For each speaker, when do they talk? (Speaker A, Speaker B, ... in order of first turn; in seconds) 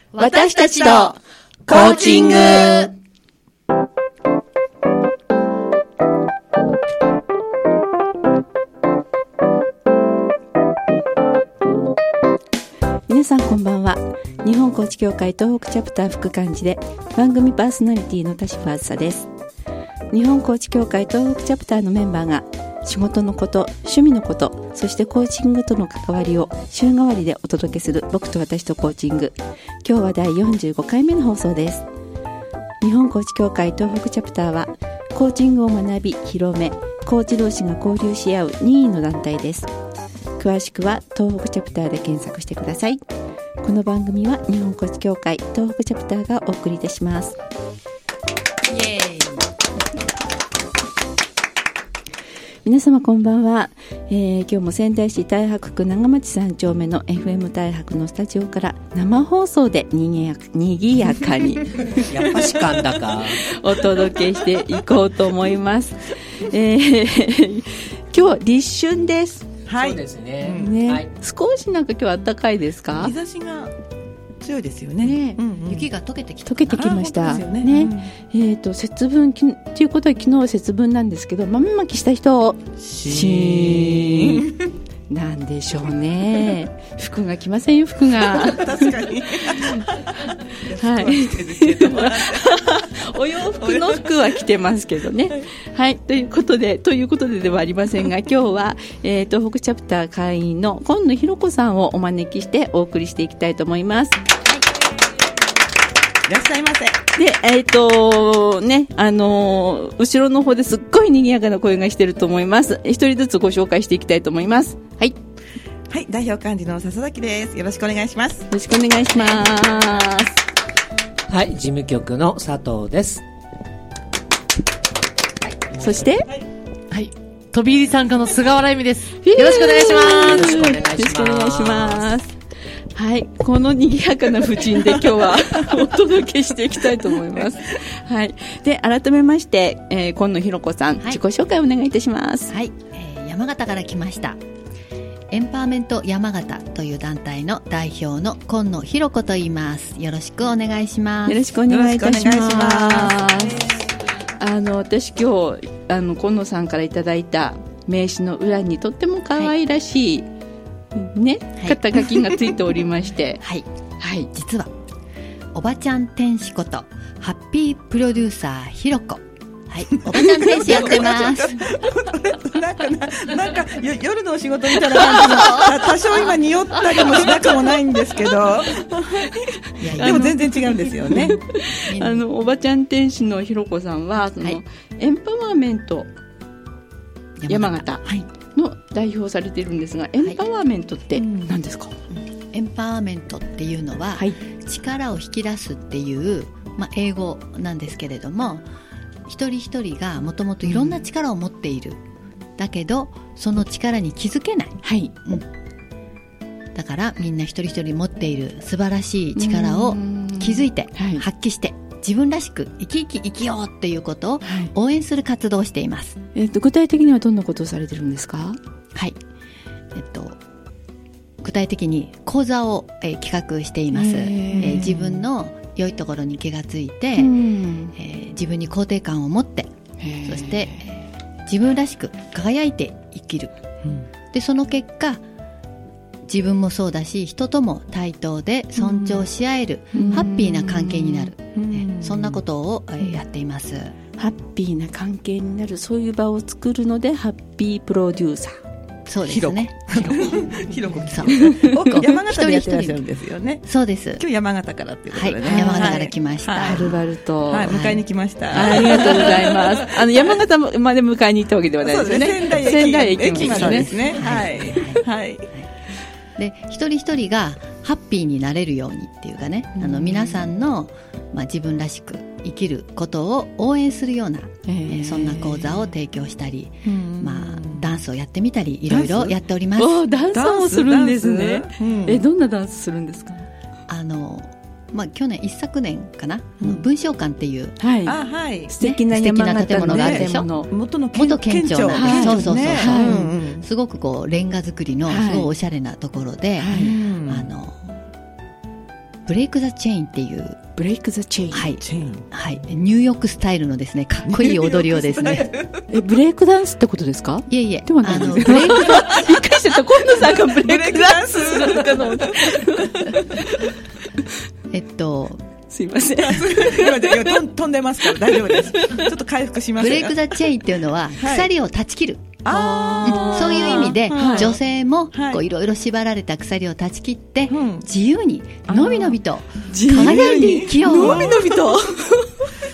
Speaker A: 0.1-1.1, 1.7-2.9, 48.7-49.5, 75.7-76.9, 142.5-144.4, 145.3-151.4, 164.3-164.7, 165.5-171.7, 175.2-175.7, 179.8-180.4, 181.8-182.2, 187.4-188.3, 192.1-198.6, 199.3-202.0, 202.6-205.4, 206.7-216.2, 219.9-220.4, 221.4-227.4, 227.9-229.7, 230.2-230.9, 231.4-233.5, 234.3-235.2, 236.3-243.9, 249.1-253.0, 253.6-254.2, 255.1-256.9, 257.7-259.0, 263.3-265.7, 266.4-280.0, 283.9-287.8, 288.8-290.5, 291.1-298.0, 299.3-300.6, 301.5-305.5, 307.5-309.4, 314.7-315.4, 319.8-322.4, 323.0-331.5
Speaker B: 0.2-1.2, 1.7-2.5, 13.1-19.3, 20.1-31.8, 32.8-39.7, 40.4-43.0, 43.6-47.4, 52.6-62.1, 63.4-69.5, 70.5-73.1, 75.0-75.4, 76.5-84.5, 85.1-88.9, 89.5-89.8, 90.6-104.2, 107.1-115.2, 118.5-120.3, 125.8-126.3, 129.2-132.3, 132.9-142.5, 151.2-153.7, 154.3-160.2, 160.9-163.4, 164.0-164.3, 170.3-170.8, 174.9-175.7, 176.9-177.7, 179.9-186.1, 187.5-191.9, 204.8-205.1, 209.3-211.2, 214.4-214.7, 216.3-218.6, 223.9-225.2, 227.2-227.9, 230.0-231.0, 238.8-239.2, 239.9-241.3, 244.2-248.6, 251.3-251.9, 255.5-256.0, 256.6-257.8, 258.5-263.9, 269.8-270.4, 274.6-275.8, 279.8-283.5, 287.8-288.1, 288.7-290.7, 291.9-293.3, 295.1-295.5, 296.6-296.9, 300.8-301.7, 305.9-313.7, 315.7-317.4, 318.0-319.1, 322.5-324.5, 329.7-332.5
Speaker C: 0.7-1.1, 1.7-2.8, 69.7-70.7, 72.9-73.7, 74.4-75.9, 76.7-78.1, 82.8-84.7, 88.3-94.4, 106.3-107.0, 115.9-118.5, 151.7-153.6, 170.0-181.4, 191.2-191.5, 240.0-240.3, 241.5-242.4, 249.3-260.2, 261.8-265.5, 276.8-277.9, 278.9-279.4, 280.3-282.2, 288.1-288.7, 289.7-293.6, 296.7-297.5, 301.8-302.2, 304.2-305.9, 310.1-313.4, 316.2-320.2, 321.2-321.5, 322.4-324.6, 325.1-325.4, 327.5-327.9, 328.7-329.2, 329.7-331.9
Speaker D: 1.7-2.7, 61.9-63.5, 69.8-71.1, 121.3-123.2, 125.7-126.1, 130.0-132.2
Speaker E: 126.9-130.7